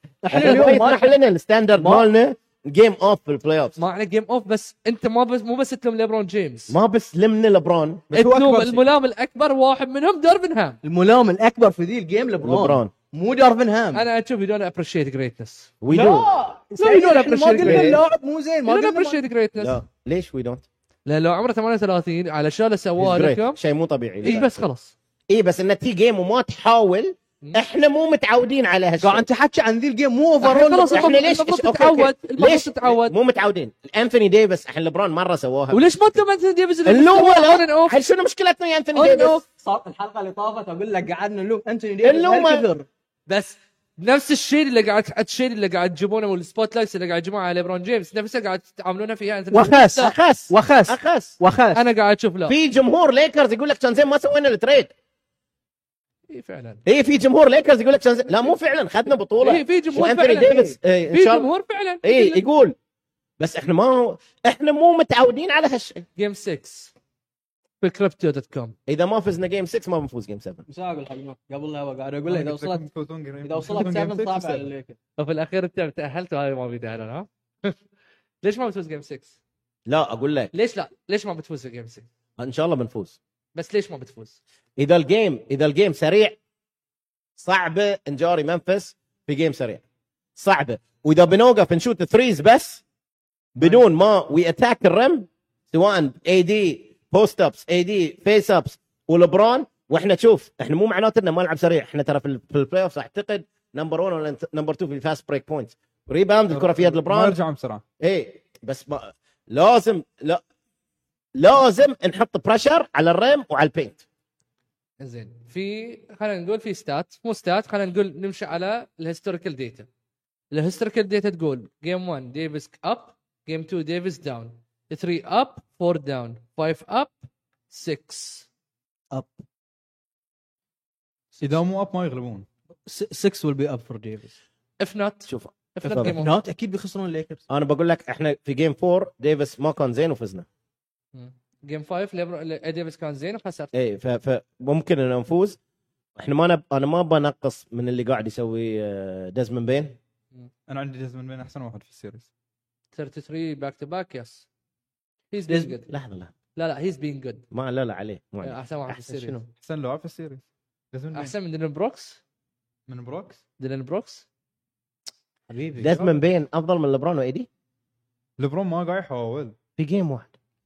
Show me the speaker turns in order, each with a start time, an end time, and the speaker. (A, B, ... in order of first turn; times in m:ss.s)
0:00.2-0:01.1 A
0:00.3-0:03.8 B
0:00.4-0:00.8 C
0:01.8-0:02.0 A
0:03.8-0:06.8 C
0:06.7-0:08.1 B
0:08.1-0:08.8 D
0:08.1-0:10.8 C
0:10.8-0:14.0 A
0:12.4-0:12.9 B
0:13.9-0:15.7 C
0:15.8-0:16.3 B
0:15.9-0:19.2 A
0:16.8-0:18.0 C
0:17.6-0:18.0 B
0:18.7-0:19.8 C
0:19.6-0:20.6 B
0:21.0-0:23.6 C
0:23.0-0:24.6 B
0:24.2-0:24.9 C
0:25.3-0:29.2 B
0:29.0-0:31.1 A
0:30.4-0:33.1 C
0:30.8-0:36.2 B
0:35.7-0:38.0 C
0:36.8-0:39.4 B
0:38.9-0:42.9 A
0:42.0-0:42.7 B
0:43.3-0:50.1 C
0:49.5-0:51.8 A
0:50.0-0:51.4 B
0:51.7-0:52.6 C
0:52.5-0:54.9 B
0:56.3-0:56.8 C
0:56.8-1:01.5 B
0:59.4-1:02.4 C
1:02.0-1:02.8 B
1:03.4-1:06.0 B
1:06.2-1:06.9 C
1:07.8-1:08.7 C
1:08.9-1:10.6 B
1:10.7-1:12.8 A
1:12.3-1:14.7 D
1:13.4-1:15.0 A
1:15.2-1:17.8 C
1:18.4-1:19.4 C
1:19.9-1:20.5 B
1:20.5-1:22.0 C
1:22.4-1:23.2 B
1:23.5-1:24.4 C
1:24.8-1:26.4 B
1:27.4-1:29.8 B
1:30.4-1:32.8 B
1:33.6-1:47.4 B
1:46.5-1:47.8 D
1:48.0-1:50.4 B
1:51.4-1:54.0 B
1:55.0-1:59.9 C
2:00.5-2:07.2 C
2:07.7-2:08.5 C
2:09.1-2:09.4 A
2:11.4-2:12.4 D
2:12.8-2:14.3 A
2:14.8-2:16.4 C
2:15.3-2:16.1 B
2:16.0-2:17.4 A
2:17.5-2:20.4 B
2:21.1-2:23.7 C
2:23.7-2:25.6 B
2:26.2-2:30.0 B
2:30.7-2:32.3 D
2:32.9-2:34.4 C
2:35.3-2:35.9 C
2:35.5-2:35.7 A
2:35.9-2:36.3 B
2:36.5-2:37.4 C
2:37.5-2:39.4 B
2:38.4-2:39.4 C
2:39.6-2:41.3 D
2:41.1-2:42.2 C
2:42.9-2:43.4 D
2:43.6-2:44.2 C
2:45.7-2:47.5 B
2:45.8-2:46.1 C
2:48.4-2:49.5 D
2:49.8-2:50.3 B